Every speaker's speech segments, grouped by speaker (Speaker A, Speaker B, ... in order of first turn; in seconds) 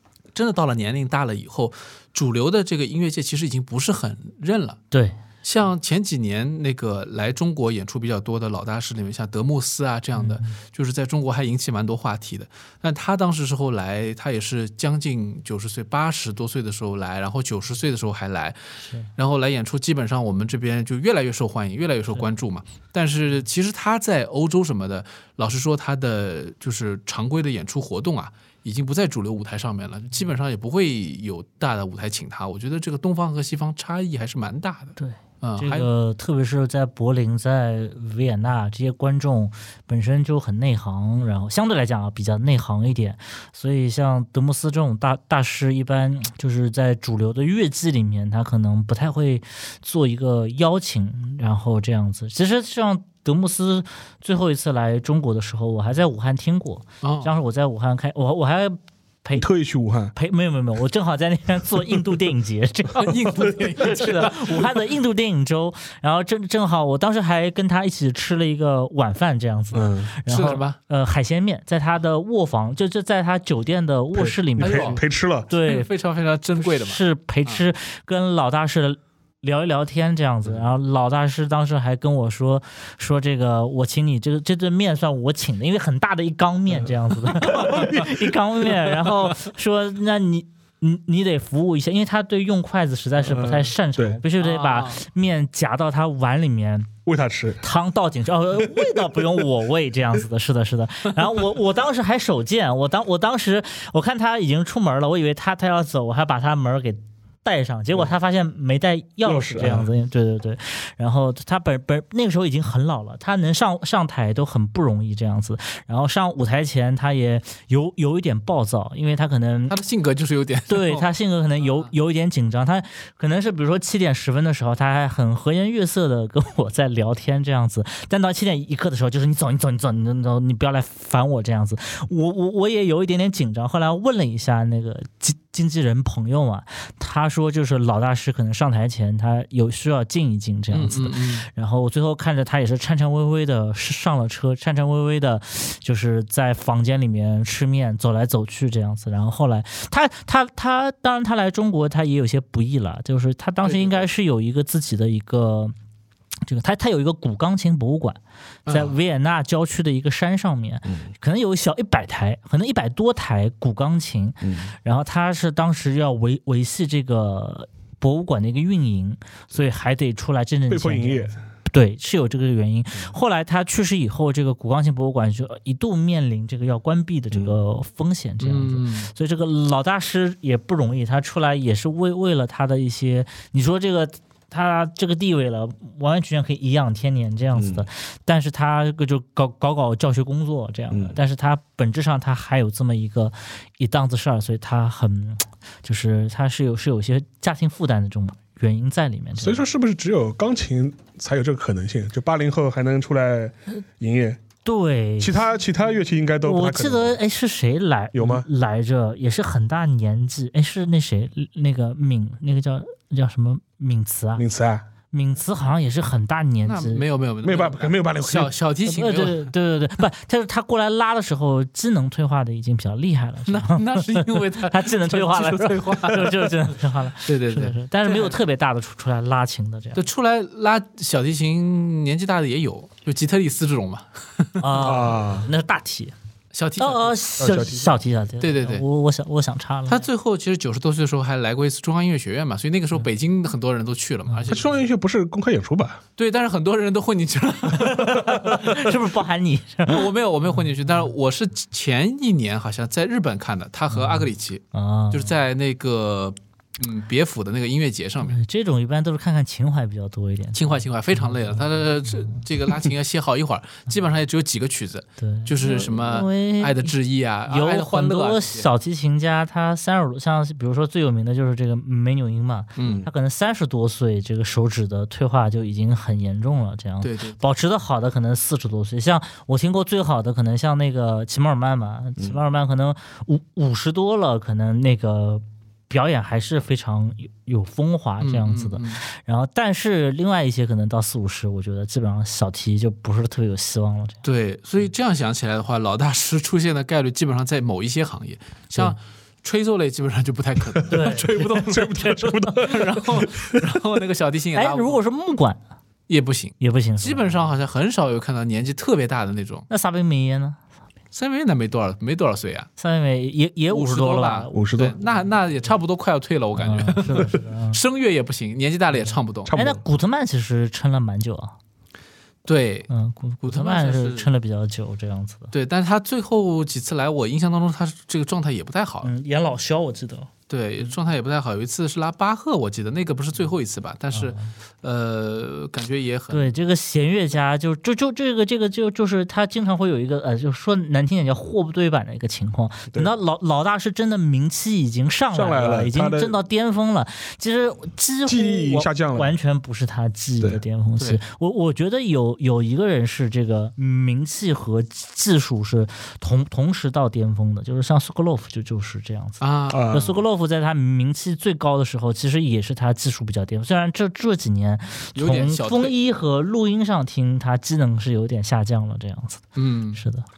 Speaker A: 0.3-4.8, 5.4-18.6, 19.1-35.9, 57.0-57.3, 62.9-64.8, 70.3-70.8, 74.6-75.0, 75.6-77.6, 87.5-88.0, 94.4-95.0, 119.7-121.1, 140.7-141.5, 153.6-154.1, 158.7-159.0, 178.4-179.1, 216.6-219.5, 223.5-226.7, 227.2-228.4, 229.9-234.9, 236.5-237.2, 238.4-238.8, 239.9-244.7, 246.2-248.9, 249.9-258.4, 260.5-268.7, 272.8-273.1, 277.0-277.4, 288.2-289.0, 294.2-305.0, 306.1-309.7, 311.1-312.7, 313.7-319.5, 322.4-322.9, 323.4-324.3, 325.5-329.1, 330.5-336.5, 359.4-359.9, 365.1-365.9, 369.6-370.0
Speaker B: 4.9-5.2, 10.2-10.6, 18.8-19.1, 35.0-59.5, 60.1-75.9, 76.6-96.9, 97.6-119.8, 120.7-155.7, 156.4-199.6, 204.6-205.5, 206.4-214.4, 215.1-217.0, 218.8-230.0, 234.6-236.1, 236.8-240.0, 244.3-244.6, 247.7-250.1, 253.9-255.3, 258.2-261.6, 265.2-266.9, 267.5-294.2, 300.9-301.5, 304.5-305.6, 306.6-307.4, 309.7-310.6, 312.8-315.1, 316.6-317.8, 318.9-321.6, 322.9-325.5, 329.0-330.3, 334.1-334.5, 336.3-370.2
Speaker C: 59.4-60.1, 69.7-70.1, 74.1-75.5, 87.5-88.1, 93.2-94.2, 97.0-97.6, 109.2-109.9, 170.7-171.3, 187.5-187.8, 190.9-191.2, 199.4-204.4, 205.2-207.2, 208.1-208.5, 214.4-214.8, 217.4-218.5, 234.8-235.5, 237.4-238.0, 244.5-246.0, 272.8-273.1, 301.4-303.8, 314.5-315.0, 319.4-319.8, 345.3-346.4, 348.3-349.3, 359.7-360.2